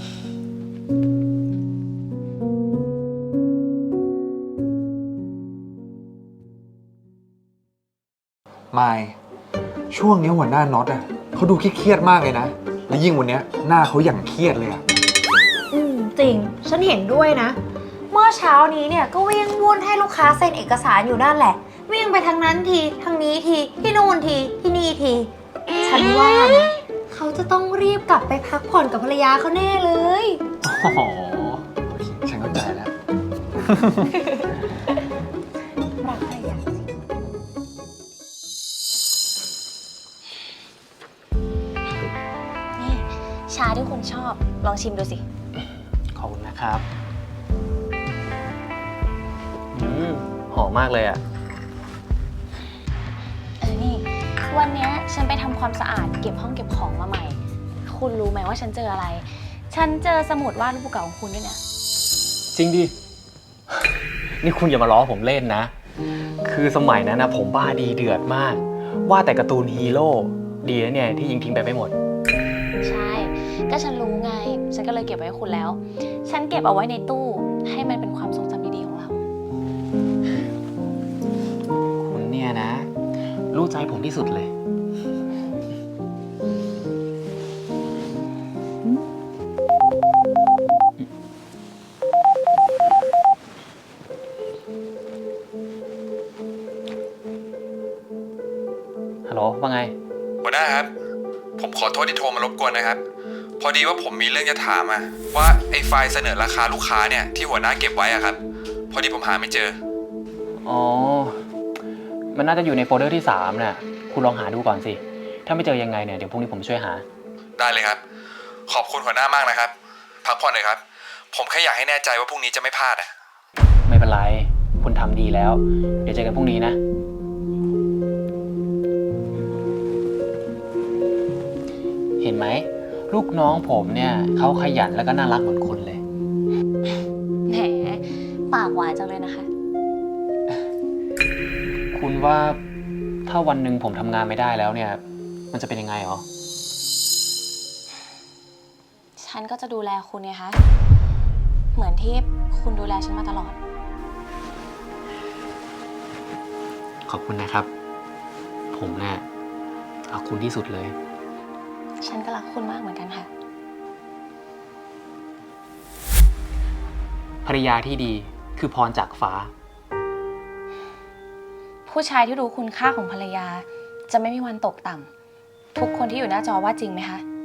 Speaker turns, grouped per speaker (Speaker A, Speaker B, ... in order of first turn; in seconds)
Speaker A: 8.7-9.2, 9.9-14.8, 30.7-32.9, 33.7-34.0
Speaker B: 15.7-17.6, 18.1-30.4, 36.0-36.7
Speaker C: 42.8-45.2, 53.6-61.6, 72.8-79.2, 137.5-139.5, 149.2-150.6, 151.8-153.6, 162.0-163.3, 171.9-175.1, 175.8-177.2
Speaker D: 45.6-46.9, 49.7-51.2, 62.5-62.9, 63.7-65.7, 66.4-72.0, 82.0-82.9, 83.5-84.5, 99.3-99.9, 110.6-111.5, 112.3-117.0, 123.9-126.8, 132.2-136.0, 141.9-142.6, 143.3-146.2, 157.1-157.7, 158.7-159.2, 160.1-161.0, 167.4-169.5
Speaker E: 100.4-100.9, 101.6-103.0, 103.6-108.4, 108.9-109.8, 117.6-118.0, 118.7-119.7, 120.2-120.8, 121.3-123.1